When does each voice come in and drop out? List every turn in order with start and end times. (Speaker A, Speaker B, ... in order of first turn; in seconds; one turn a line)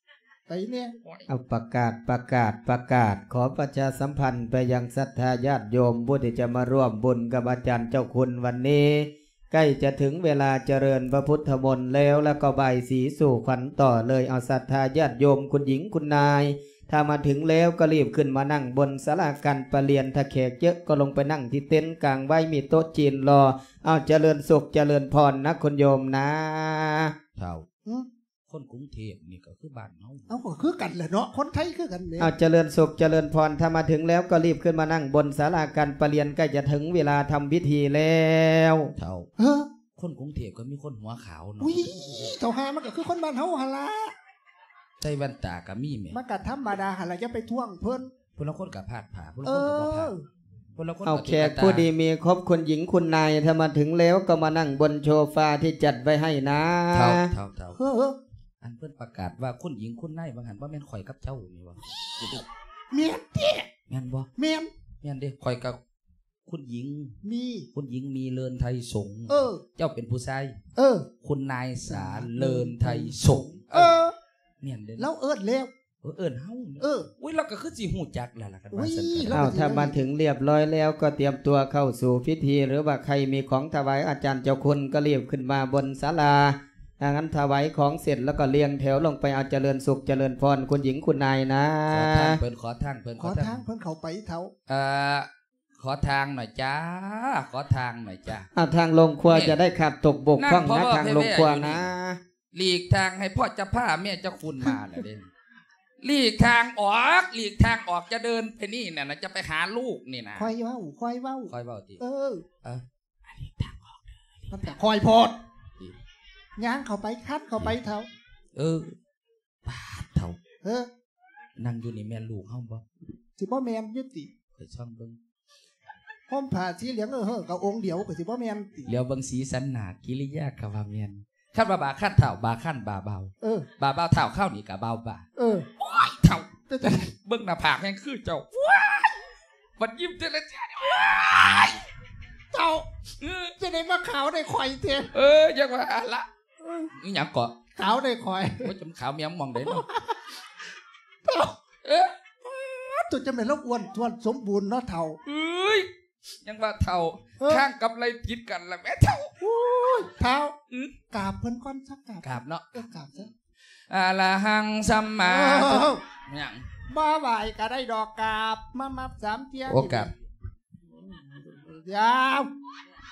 Speaker A: 0.5-0.9
Speaker B: 1.3-27.1
Speaker C: 27.4-27.7
Speaker C: 28.5-30.3
Speaker A: 30.3-32.3
Speaker B: 32.2-38.9
Speaker C: 39.0-39.3
Speaker A: 39.4-39.7
Speaker C: 40.0-42.3
Speaker A: 41.6-44.1
Speaker C: 45.0-46.2
Speaker A: 46.1-48.1
Speaker C: 48.4-50.1
Speaker A: 49.4-50.2
Speaker C: 50.8-51.9
Speaker B: 51.0-57.3
Speaker C: 56.9-57.8
Speaker A: 57.8-58.2
Speaker C: 58.6-62.4
Speaker A: 62.9-63.7
Speaker C: 63.9-64.3
Speaker A: 64.4-64.7
Speaker C: 65.0-65.8
Speaker C: 66.5-67.2
Speaker A: 67.2-67.7
Speaker C: 67.7-70.5
Speaker A: 69.3-69.6
Speaker A: 70.8-71.1
Speaker C: 71.2-74.0
Speaker A: 71.9-74.1
Speaker C: 74.6-75.1
Speaker A: 75.0-75.7
Speaker C: 76.0-79.6
Speaker A: 76.8-77.1
Speaker A: 78.7-80.0
Speaker B: 79.3-92.4
Speaker C: 91.9-93.6
Speaker A: 93.2-94.5
Speaker C: 94.7-98.5
Speaker B: 98.5-102.2
Speaker C: 99.3-99.5
Speaker C: 100.4-101.8
Speaker C: 102.5-105.3
Speaker C: 106.0-110.5
Speaker A: 110.4-112.4
Speaker C: 111.5-112.0
Speaker C: 112.6-114.7
Speaker A: 114.5-115.4
Speaker A: 116.6-118.1
Speaker C: 118.5-119.0
Speaker C: 119.6-120.4
Speaker A: 120.6-120.9
Speaker C: 121.6-122.8
Speaker A: 123.4-124.3
Speaker C: 124.6-125.2
Speaker A: 126.3-128.9
Speaker C: 128.8-135.3
Speaker A: 133.4-133.7
Speaker A: 135.3-135.7
Speaker C: 135.8-136.5
Speaker A: 136.7-137.1
Speaker C: 137.2-139.2
Speaker C: 139.8-141.8
Speaker A: 142.5-142.9
Speaker C: 143.2-143.5
Speaker A: 143.5-145.1
Speaker C: 145.1-146.3
Speaker C: 146.9-147.6
Speaker A: 147.8-148.7
Speaker C: 148.6-149.9
Speaker A: 149.6-150.2
Speaker A: 151.2-151.6
Speaker C: 151.8-152.1
Speaker A: 152.4-155.2
Speaker C: 155.2-155.9
Speaker C: 156.4-159.3
Speaker A: 157.4-157.6
Speaker A: 159.4-160.5
Speaker C: 160.7-160.9
Speaker A: 161.1-163.3
Speaker C: 162.2-163.3
Speaker C: 163.9-166.7
Speaker A: 165.2-166.0
Speaker A: 166.9-170.1
Speaker C: 169.7-170.1
Speaker A: 171.1-172.5